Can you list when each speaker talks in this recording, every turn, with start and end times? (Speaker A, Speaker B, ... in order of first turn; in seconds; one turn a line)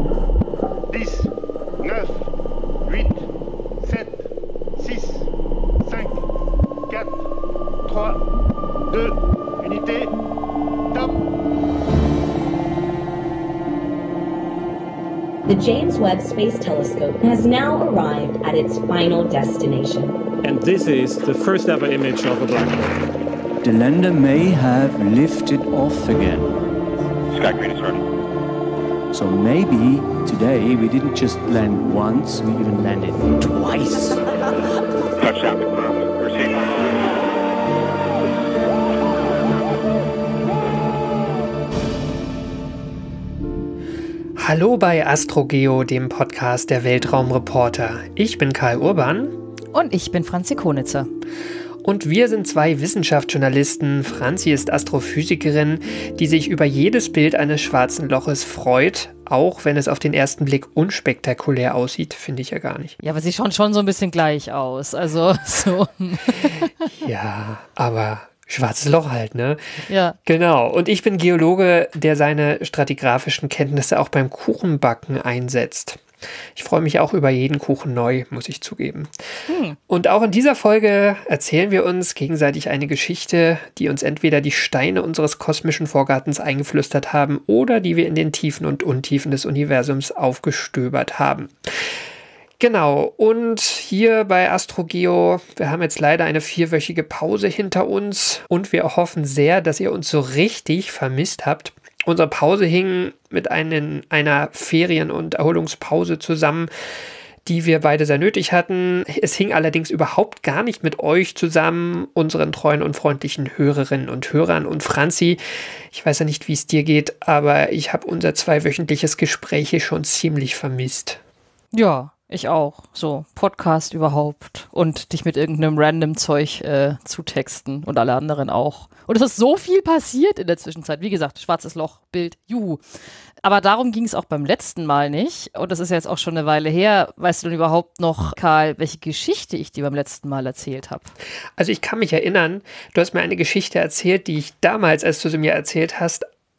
Speaker A: 0.9-1.3
Speaker A: 1.8-2.3
Speaker A: 2.9-3.3
Speaker A: 3.8-4.2
Speaker A: 4.8-5.3
Speaker A: 5.8-6.2
Speaker A: 6.9-7.2
Speaker A: 7.8-8.2
Speaker A: 8.9-10.1
Speaker B: 15.5-20.2
Speaker C: 20.4-23.0
Speaker D: 23.6-26.6
Speaker E: 27.3-28.0
Speaker D: 29.1-34.2
Speaker E: 35.2-37.1
Speaker F: 44.4-49.4
Speaker G: 49.7-51.1
Speaker F: 51.8-63.0
Speaker G: 63.0-66.7
Speaker F: 67.0-76.0
Speaker G: 69.9-70.2
Speaker F: 76.5-79.1
Speaker G: 79.5-79.8
Speaker F: 79.9-91.9
Speaker F: 92.6-106.7
Speaker F: 107.4-121.2
Speaker G: 121.7-132.8
Speaker G: 133.4-141.1
Speaker F: 141.6-146.2